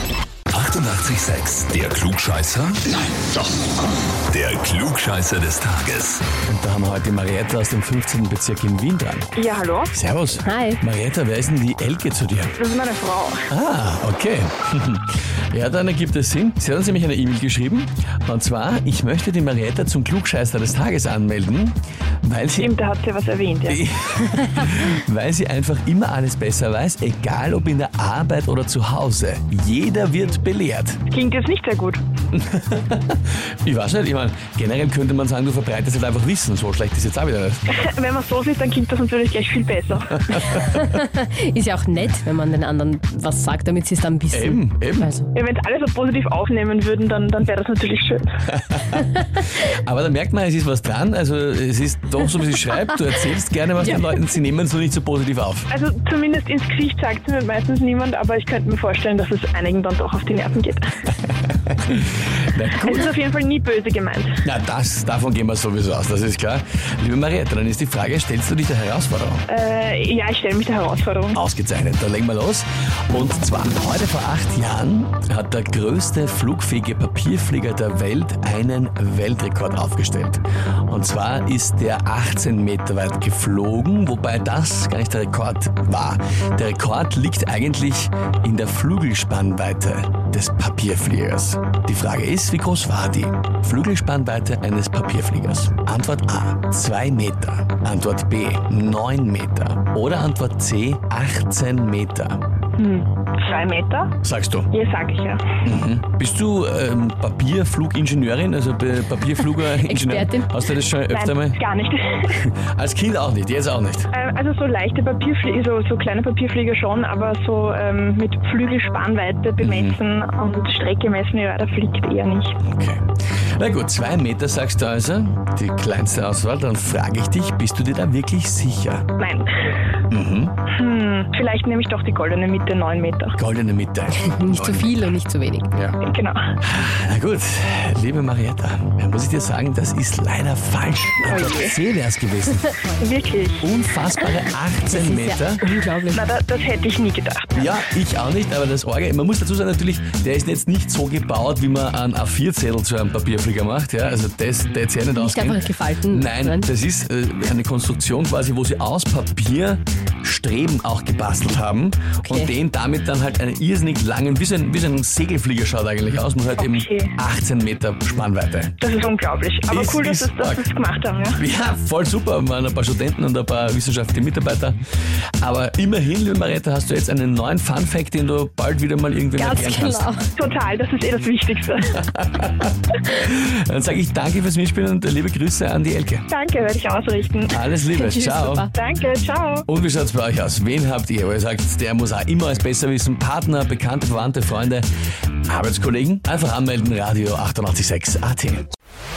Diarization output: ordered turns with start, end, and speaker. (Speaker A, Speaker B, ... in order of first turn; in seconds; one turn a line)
Speaker A: 0.5-6.3
Speaker B: 6.5-9.3
Speaker C: 9.4-9.9
Speaker B: 9.9-12.6
Speaker D: 10.4-10.8
Speaker C: 12.6-13.5
Speaker B: 13.5-22.8
Speaker C: 22.6-23.8
Speaker B: 23.7-31.0
Speaker C: 31.1-32.0
Speaker B: 32.3-37.6
Speaker C: 37.7-40.5
Speaker B: 40.3-40.8
Speaker D: 40.6-45.3
Speaker B: 44.3-45.1
Speaker C: 45.3-48.3
Speaker B: 48.6-55.7
Speaker C: 55.7-60.9
Speaker B: 61.5-63.1
Speaker C: 62.8-64.5
Speaker B: 64.4-69.5
Speaker C: 69.5-71.4
Speaker B: 71.3-102.4
Speaker C: 102.8-104.2
Speaker B: 104.2-104.7
Speaker C: 104.7-105.6
Speaker B: 105.6-111.6
Speaker D: 109.6-110.5
Speaker C: 111.1-112.4
Speaker B: 112.3-114.1
Speaker C: 114.1-122.6
Speaker B: 119.6-120.0
Speaker B: 122.7-123.0
Speaker B: 123.6-129.1
Speaker C: 129.2-129.8
Speaker B: 130.1-130.6
Speaker C: 130.7-133.4
Speaker B: 133.4-135.1
Speaker D: 134.2-135.7
Speaker B: 135.7-136.0
Speaker C: 136.0-136.6
Speaker B: 136.6-142.8
Speaker C: 141.3-141.8
Speaker C: 143.0-143.7
Speaker B: 143.6-145.7
Speaker D: 144.8-146.2
Speaker C: 146.1-147.8
Speaker B: 147.6-168.8
Speaker D: 155.2-156.7
Speaker D: 162.2-162.5
Speaker C: 166.6-167.2
Speaker C: 168.8-171.4
Speaker B: 169.7-170.7
Speaker B: 171.3-174.8
Speaker B: 175.4-180.1
Speaker D: 179.3-180.2
Speaker C: 180.3-182.0
Speaker B: 181.9-186.2
Speaker C: 186.3-187.7
Speaker B: 187.5-188.7
Speaker D: 187.9-188.7
Speaker C: 188.7-189.7
Speaker B: 189.7-194.8
Speaker B: 195.5-198.7